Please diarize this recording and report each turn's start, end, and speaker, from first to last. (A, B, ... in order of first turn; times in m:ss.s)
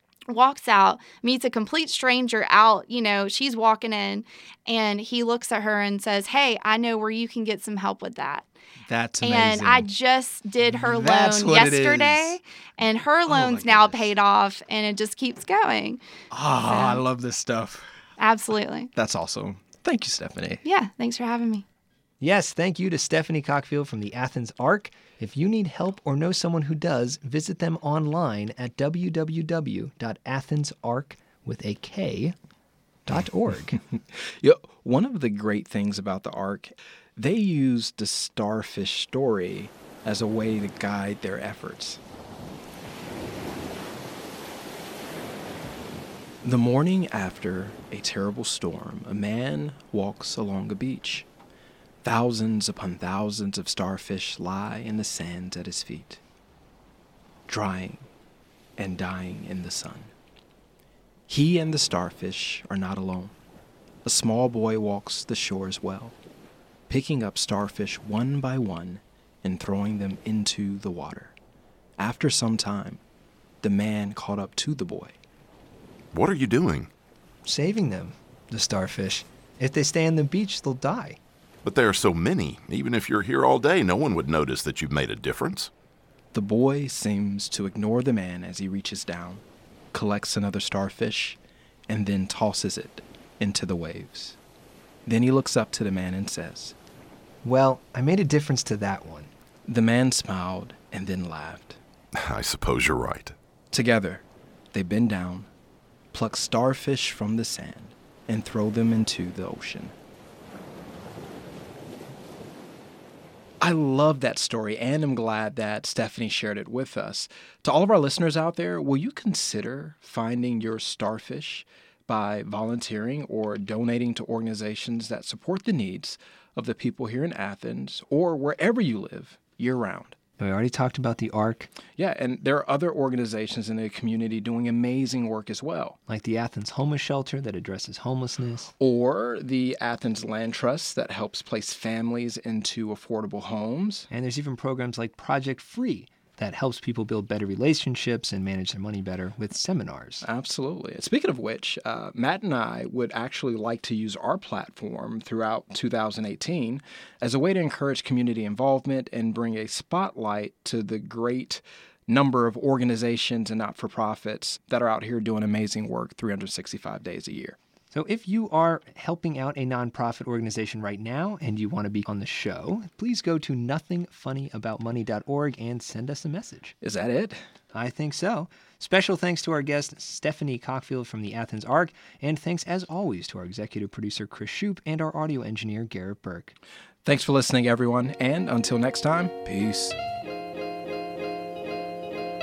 0:00.3-0:08.5 A
0:08.9-0:09.9 B
0:09.2-0:16.0 A
0:10.7-0:12.4 B
0:13.3-0:14.1 B
0:16.3-0:17.8 B
0:16.7-0:17.0 A
0:18.2-0:18.9 A
0:18.9-0:20.6 B
0:20.6-0:21.6 A
0:22.2-0:32.4 C
0:33.1-0:33.8 C
0:33.8-0:42.0 B
0:46.4-0:51.3 B
0:52.0-0:56.2 B
0:57.5-0:58.1 B
0:58.8-1:00.1 B
1:01.3-1:03.3 B
1:04.0-1:06.2 B
1:06.9-1:11.3 B
1:12.0-1:13.0 B
1:13.6-1:15.1 B
1:16.1-1:16.9 D
1:17.4-1:21.2 C
1:21.6-1:25.7 D
1:26.3-1:34.4 B
1:35.0-1:36.8 B
1:37.4-1:39.3 C
1:39.7-1:41.8 B
1:42.1-1:43.4 D
1:43.7-1:45.5 B
1:46.1-1:49.9 B
1:53.6-2:10.2 B
2:10.4-2:11.7 C
2:12.0-2:16.0 B
2:16.1-2:18.7 C
2:18.8-2:24.1 B
2:24.1-2:30.3 C
2:30.2-2:47.6 B
2:47.9-2:56.7 C
2:56.8-2:57.4 B
2:57.7-3:06.6 C
3:07.0-3:10.0 B